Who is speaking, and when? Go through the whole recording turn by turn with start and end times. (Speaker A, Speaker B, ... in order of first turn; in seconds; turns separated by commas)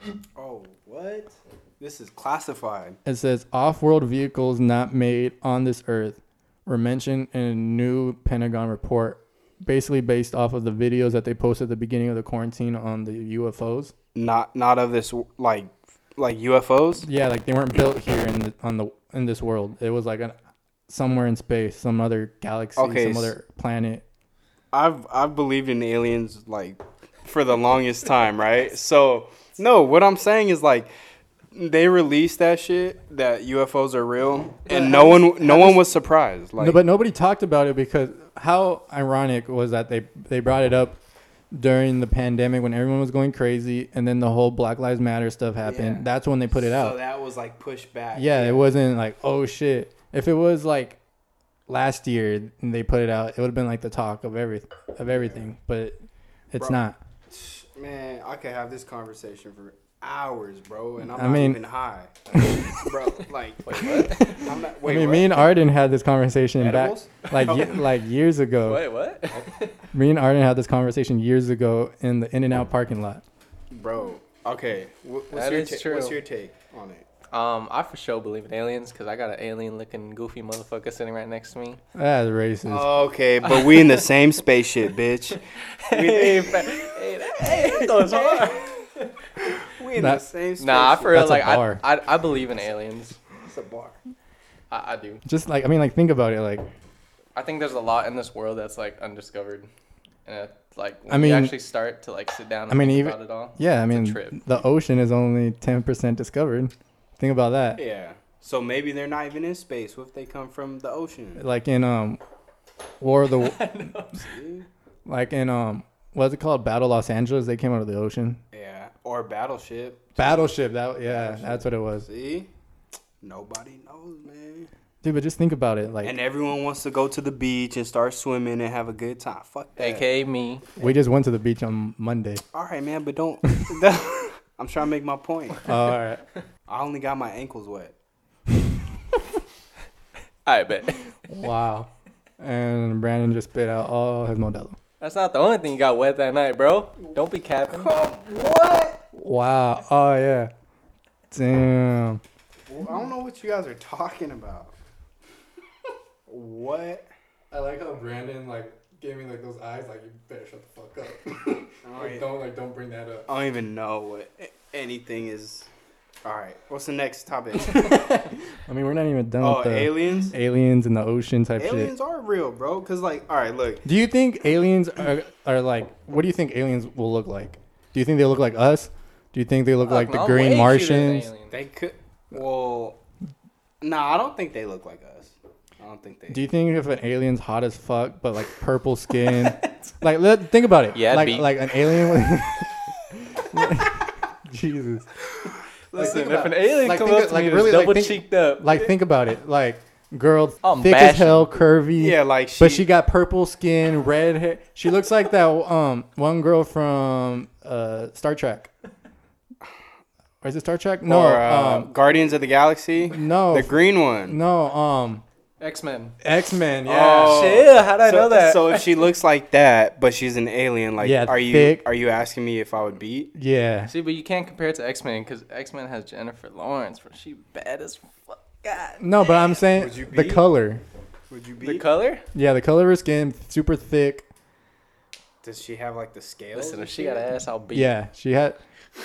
Speaker A: 0.4-3.0, Speaker B: 3.0-13.9, Speaker A: 14.2-17.1, Speaker B: 17.0-20.4, Speaker B: 20.9-24.0, Speaker A: 22.8-23.3, Speaker A: 24.7-30.9, Speaker A: 31.5-36.8, Speaker B: 34.7-35.9, Speaker B: 36.6-41.0, Speaker B: 41.5-47.0, Speaker A: 45.6-48.7, Speaker B: 48.1-51.0, Speaker B: 51.7-56.0, Speaker A: 55.0-55.5, Speaker B: 56.5-57.0, Speaker A: 57.3-62.1, Speaker B: 61.0-61.6, Speaker B: 62.3-62.9, Speaker A: 62.6-65.5, Speaker C: 63.6-64.5, Speaker B: 64.8-68.9, Speaker A: 66.6-67.8, Speaker C: 68.6-69.8, Speaker B: 69.9-73.2, Speaker A: 73.7-77.1, Speaker C: 75.3-76.2, Speaker C: 77.3-81.8, Speaker B: 82.0-83.0, Speaker A: 82.7-88.8, Speaker C: 83.5-83.8, Speaker C: 85.8-89.1, Speaker A: 89.6-91.2, Speaker B: 90.0-90.2, Speaker C: 90.6-93.2, Speaker B: 91.1-91.8, Speaker A: 93.4-94.0, Speaker C: 94.7-95.2, Speaker B: 95.2-96.7, Speaker C: 97.4-99.7, Speaker C: 100.3-104.4, Speaker B: 101.1-101.6, Speaker B: 102.7-107.8, Speaker A: 107.8-111.4, Speaker B: 111.4-112.2, Speaker B: 113.0-113.7, Speaker C: 113.3-114.2, Speaker A: 114.1-114.7, Speaker B: 115.1-118.4, Speaker A: 118.5-122.5, Speaker B: 120.2-122.1, Speaker A: 123.2-124.7, Speaker B: 125.0-126.2, Speaker A: 126.0-130.1, Speaker C: 129.8-130.7, Speaker B: 130.8-132.4, Speaker A: 132.5-135.7, Speaker B: 135.7-136.2, Speaker A: 136.7-137.9, Speaker C: 140.5-141.1, Speaker B: 141.3-144.8, Speaker C: 145.0-147.9, Speaker A: 147.0-149.0, Speaker B: 149.1-150.5, Speaker B: 151.3-152.2, Speaker A: 152.7-154.7, Speaker A: 156.3-157.1, Speaker B: 157.5-163.3, Speaker A: 161.8-162.3, Speaker A: 163.3-165.7, Speaker A: 166.2-168.2, Speaker B: 168.6-171.9, Speaker A: 169.4-170.4, Speaker A: 171.6-173.8, Speaker B: 173.8-181.3, Speaker C: 179.8-181.5, Speaker A: 181.5-183.0, Speaker A: 183.8-186.4, Speaker B: 186.3-192.8, Speaker C: 190.9-191.5, Speaker B: 193.3-195.1, Speaker C: 195.9-198.9, Speaker B: 196.0-208.7, Speaker C: 200.6-201.6, Speaker A: 202.0-202.9, Speaker B: 210.4-211.9, Speaker A: 211.1-214.4, Speaker B: 213.1-215.2, Speaker C: 215.6-216.2, Speaker B: 216.2-217.6, Speaker A: 216.8-223.3, Speaker C: 217.2-219.0, Speaker B: 221.0-221.8, Speaker B: 223.3-223.9, Speaker C: 223.9-229.1, Speaker B: 229.0-230.8, Speaker A: 229.7-230.5, Speaker A: 231.3-231.9, Speaker C: 231.6-232.3, Speaker B: 232.3-234.3, Speaker A: 235.4-237.3, Speaker C: 236.5-237.9, Speaker B: 237.7-238.6